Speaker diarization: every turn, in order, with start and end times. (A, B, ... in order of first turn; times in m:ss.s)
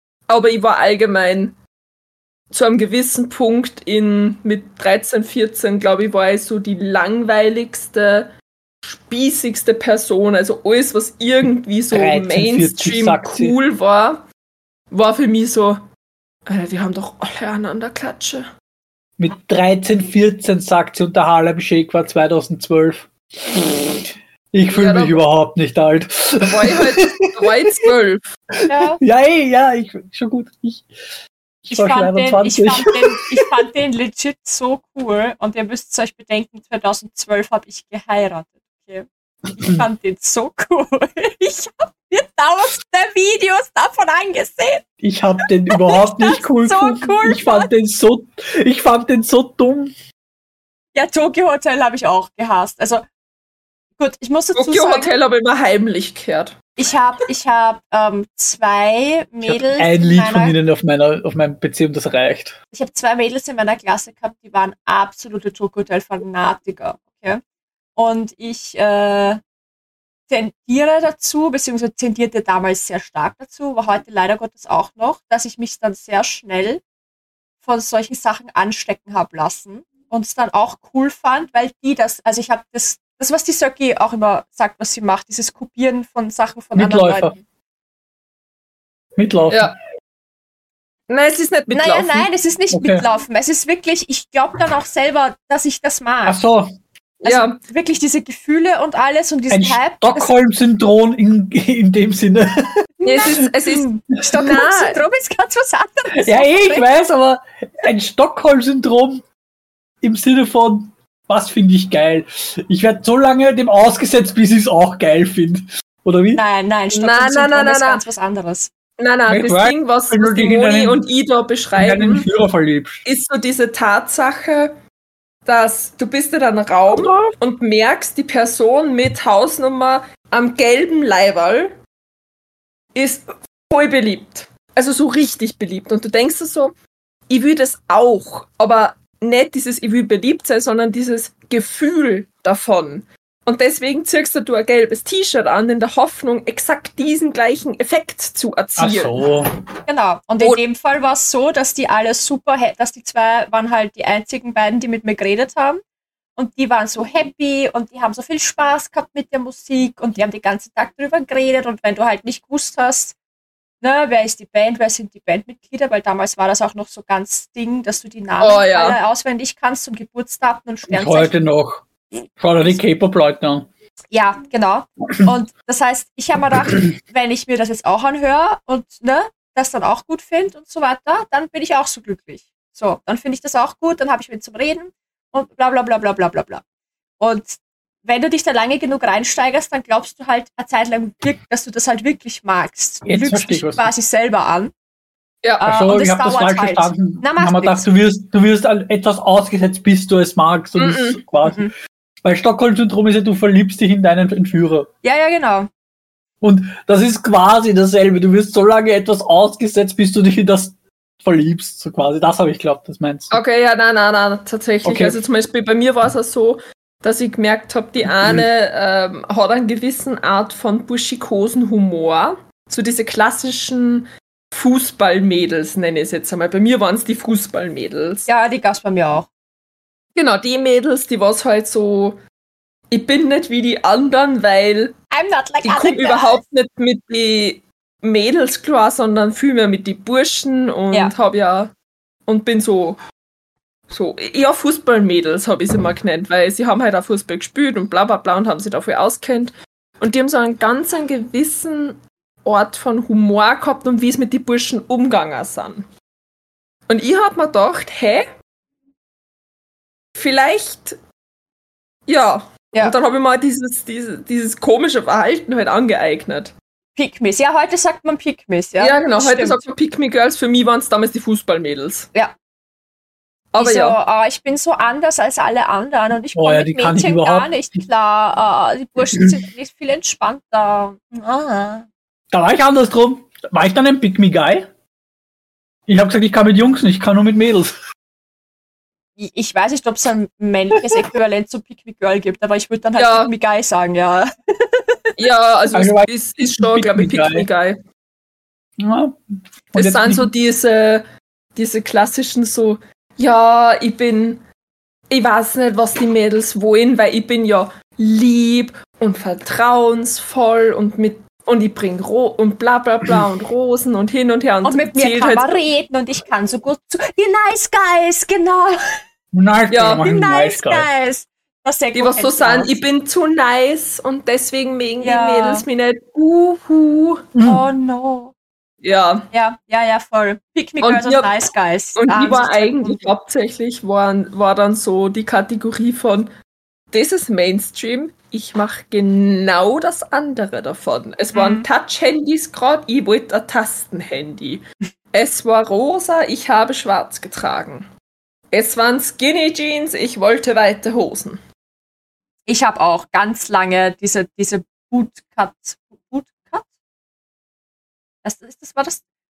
0:00.3-0:01.6 A
0:02.5-0:08.3 A
0:08.8-0:14.2 A
0:11.9-0:13.6 B
0:14.9-0:15.9 A
0:16.5-0:18.5 A
0:19.2-0:27.8 B
0:24.7-0:25.2 A
0:26.4-0:28.2 A
0:28.6-0:30.9 B
0:28.7-0:29.0 C
0:31.6-0:33.4 B
0:31.7-0:39.0 C
0:39.6-0:44.8 C
0:45.0-0:49.9 B
0:45.7-0:47.7 C
0:50.9-0:53.0 C
0:54.0-0:55.1 C
0:54.6-0:56.6 A
0:56.8-1:00.6 C
0:59.4-1:02.6 B
1:02.7-1:07.4 C
1:08.0-1:09.4 C
1:10.3-1:16.8 C
1:17.6-1:27.4 C
1:26.7-1:27.3 B
1:29.2-1:29.7 B
1:29.5-1:29.7 A
1:31.1-1:32.3 A
1:31.7-1:36.4 C
1:32.7-1:33.0 B
1:36.2-1:36.7 B
1:37.2-1:37.6 A
1:37.2-1:40.3 C
1:39.5-1:42.8 B
1:43.0-1:46.9 C
1:43.0-1:45.0 A
1:46.1-1:49.2 B
1:50.0-1:56.4 B
1:56.3-1:58.7 C
1:56.9-1:58.0 A
1:59.0-2:02.3 A
1:59.3-2:01.0 B
2:01.8-2:03.0 B
2:03.0-2:04.7 A
2:05.4-2:11.8 A
2:06.9-2:07.3 B
2:12.9-2:16.7 A
2:17.3-2:29.2 A
2:28.8-2:29.5 B
2:29.9-2:35.8 C
2:36.4-2:43.1 C
2:43.8-2:51.3 C
2:48.4-2:49.0 A
2:50.9-2:51.8 B
2:52.4-2:53.7 B
2:54.1-3:06.6 C
3:07.2-3:14.7 C
3:13.0-3:13.9 B
3:15.6-3:17.8 C
3:15.6-3:21.7 B
3:20.8-3:21.2 A
3:21.4-3:21.7 C
3:22.2-3:24.9 B
3:25.0-3:25.7 C
3:26.4-3:33.4 B
3:33.3-3:48.3 A
3:34.8-3:35.2 B
3:48.3-3:49.3 C
3:50.2-3:52.2 A
3:52.9-3:55.0 A
3:55.1-3:56.4 C
3:55.6-4:01.7 A
4:02.3-4:03.0 A
4:03.9-4:15.9 A
4:16.9-4:18.3 A
4:20.2-4:21.0 A
4:22.1-4:26.5 A
4:27.0-4:29.6 C
4:28.8-4:32.1 A
4:33.5-4:34.0 A
4:33.6-4:41.8 C
4:36.3-4:37.5 B
4:42.3-4:44.7 B
4:45.9-4:47.7 B
4:49.2-4:55.0 C
4:53.0-4:53.3 A
4:55.2-4:57.8 A
4:55.7-4:57.5 B
4:58.8-5:00.3 B
4:59.7-5:04.4 A
5:05.1-5:15.6 A
5:14.6-5:18.8 C
5:19.3-5:20.9 B
5:19.7-5:20.0 A
5:20.0-5:22.7 C
5:21.9-5:27.2 A
5:25.0-5:25.6 C
5:27.3-5:27.6 B
5:27.4-5:28.3 C
5:28.8-5:29.3 A
5:29.3-5:33.1 C
5:30.8-5:31.4 A
5:32.0-5:36.3 A
5:36.9-5:47.9 A
5:41.3-5:41.6 C
5:48.5-5:51.4 A
5:52.5-5:56.7 C
5:58.2-5:59.0 C